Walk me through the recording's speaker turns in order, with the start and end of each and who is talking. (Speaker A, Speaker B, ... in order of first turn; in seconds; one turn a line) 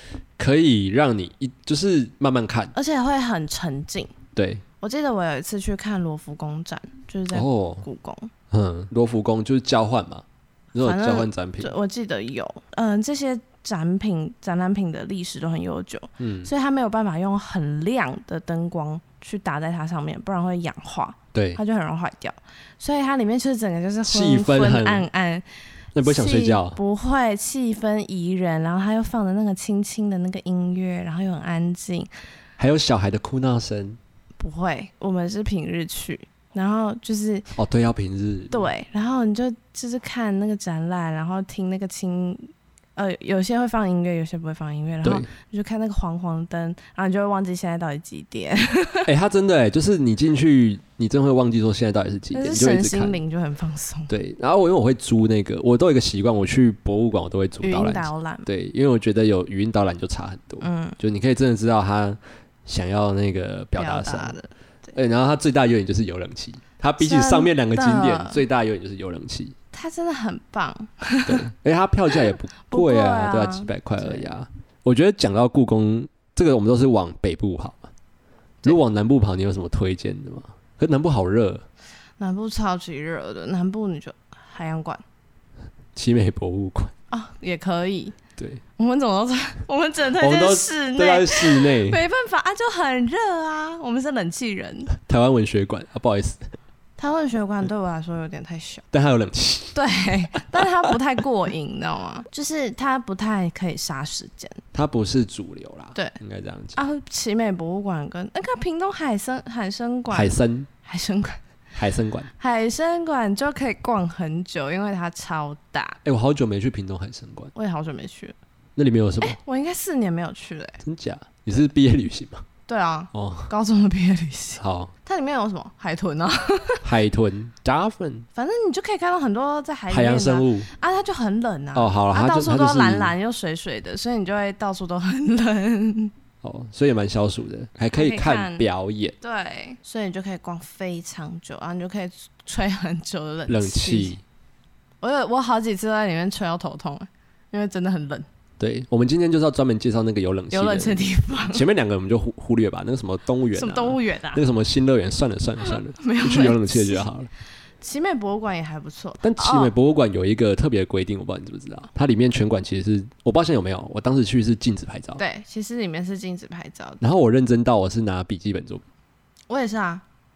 Speaker A: 0.4-2.8
Speaker B: 2.8-4.1
Speaker A: 4.3-4.6
Speaker B: 4.8-8.3
Speaker A: 7.3-7.9
Speaker A: 8.5-11.7
Speaker B: 10.8-25.5
Speaker A: 16.2-16.5
Speaker A: 21.3-21.6
Speaker A: 24.0-25.1
Speaker A: 25.9-26.8
Speaker B: 26.0-32.1
Speaker A: 32.6-34.0
Speaker B: 34.4-37.5
Speaker A: 37.5-38.7
Speaker B: 38.5-49.1
Speaker A: 49.0-53.2
Speaker B: 52.3-54.1
Speaker A: 54.1-64.4
Speaker B: 57.6-58.5
Speaker B: 60.6-61.0
Speaker B: 63.8-64.9
Speaker A: 64.9-69.5
Speaker B: 67.0-68.4
Speaker B: 69.7-71.4
Speaker A: 71.2-77.9
Speaker B: 72.7-74.3
Speaker A: 78.6-81.6
Speaker B: 82.2-85.0
Speaker A: 86.0-86.9
Speaker B: 87.1-88.2
Speaker B: 88.8-94.9
Speaker A: 90.2-92.0
Speaker A: 95.0-96.4
Speaker B: 97.0-98.8
Speaker A: 98.9-99.8
Speaker B: 99.8-104.6
Speaker A: 104.7-106.8
Speaker B: 106.8-111.4
Speaker A: 110.1-110.7
Speaker A: 111.8-112.3
Speaker B: 112.3-116.0
Speaker A: 116.0-117.5
Speaker B: 117.5-118.4
Speaker A: 118.8-119.4
Speaker B: 119.2-120.8
Speaker A: 120.8-122.4
Speaker B: 122.7-126.8
Speaker A: 123.1-123.5
Speaker A: 124.6-124.9
Speaker A: 126.8-128.3
Speaker B: 128.4-136.1
Speaker A: 129.9-130.7
Speaker A: 131.8-133.1
Speaker A: 136.4-139.1
Speaker B: 137.9-138.7
Speaker B: 139.2-144.2
Speaker A: 143.5-144.2
Speaker B: 145.0-148.3
Speaker A: 148.6-157.3
Speaker B: 150.5-151.7
Speaker B: 153.5-154.4
Speaker B: 155.6-157.1
Speaker B: 157.8-159.7
Speaker A: 159.2-165.2
Speaker B: 165.2-167.0
Speaker A: 167.0-168.8
Speaker B: 169.5-170.0